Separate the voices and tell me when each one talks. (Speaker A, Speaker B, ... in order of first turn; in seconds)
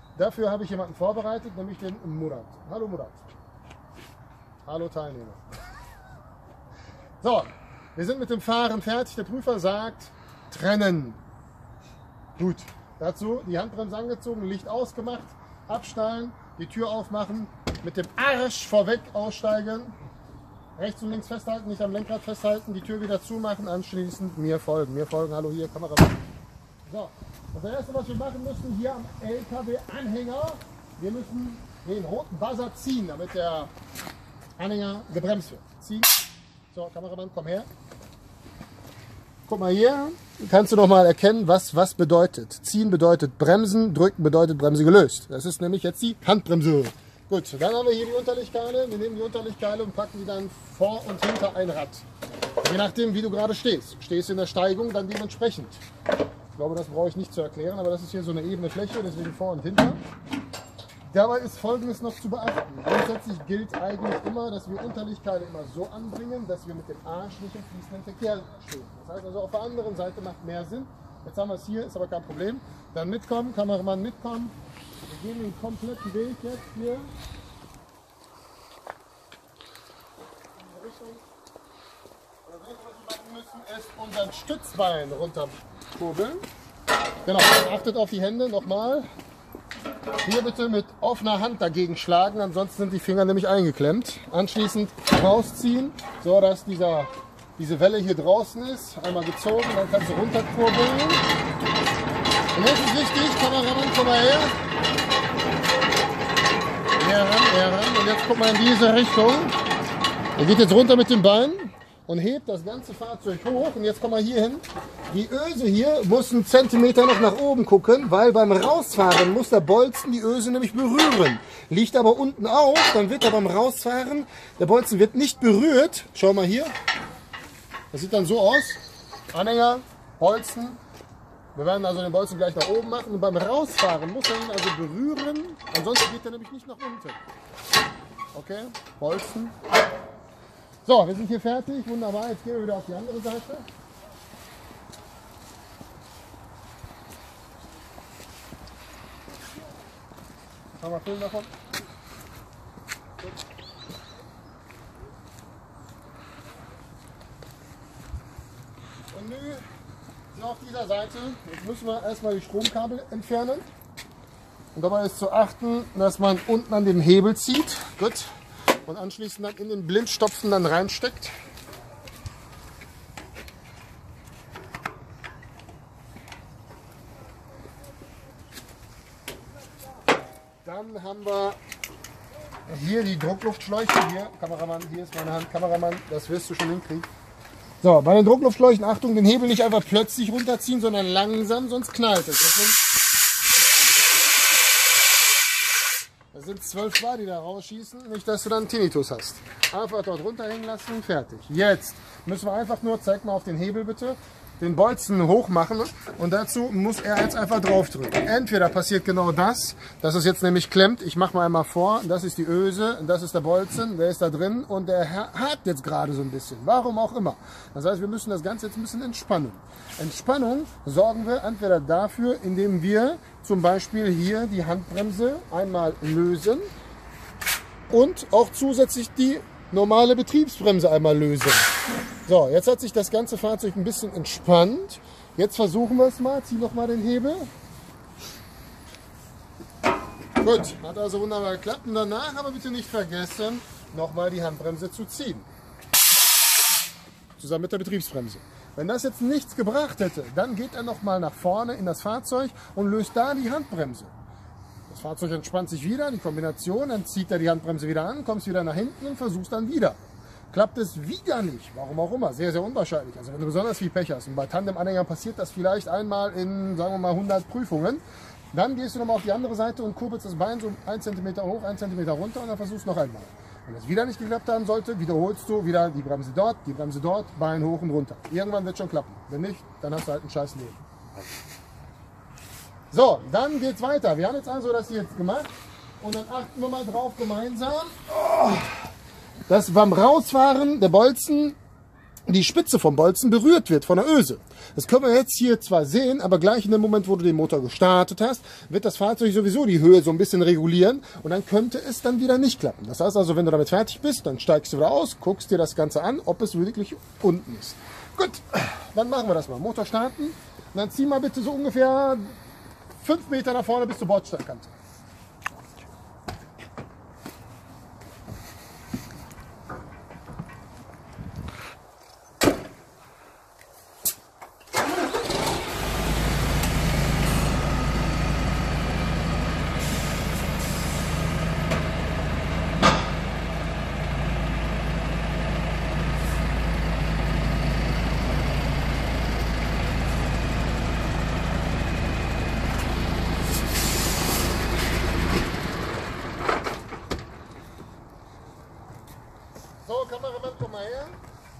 Speaker A: 0.1-3.2, 4.7-5.4, 7.2-11.2, 12.3-19.9, 20.8-26.2, 26.9-33.7, 34.6-36.1, 36.7-37.7, 39.5-52.0, 52.6-55.8, 56.5-60.0, 61.0-74.5, 75.1-77.1, 80.6-81.2, 82.5-86.4, 87.2-89.1, 90.2-101.2, 102.5-104.6, 107.0-109.5, 110.3-126.7, 127.9-130.8, 131.5-137.2, 138.3-139.5, 140.8-143.7, 150.8-151.5, 159.1-159.6, 160.3-163.7, 164.7-168.3, 168.8-171.3, 180.6-181.6, 182.7-187.1, 187.8-192.8, 196.3-226.7, 227.9-231.7, 232.2-237.5, 240.4-245.5, 247.4-254.1, 254.9-260.0, 260.5-280.8, 282.9-285.5, 286.0-288.7, 289.5-291.6, 292.3-312.3, 313.0-314.7, 349.8-351.1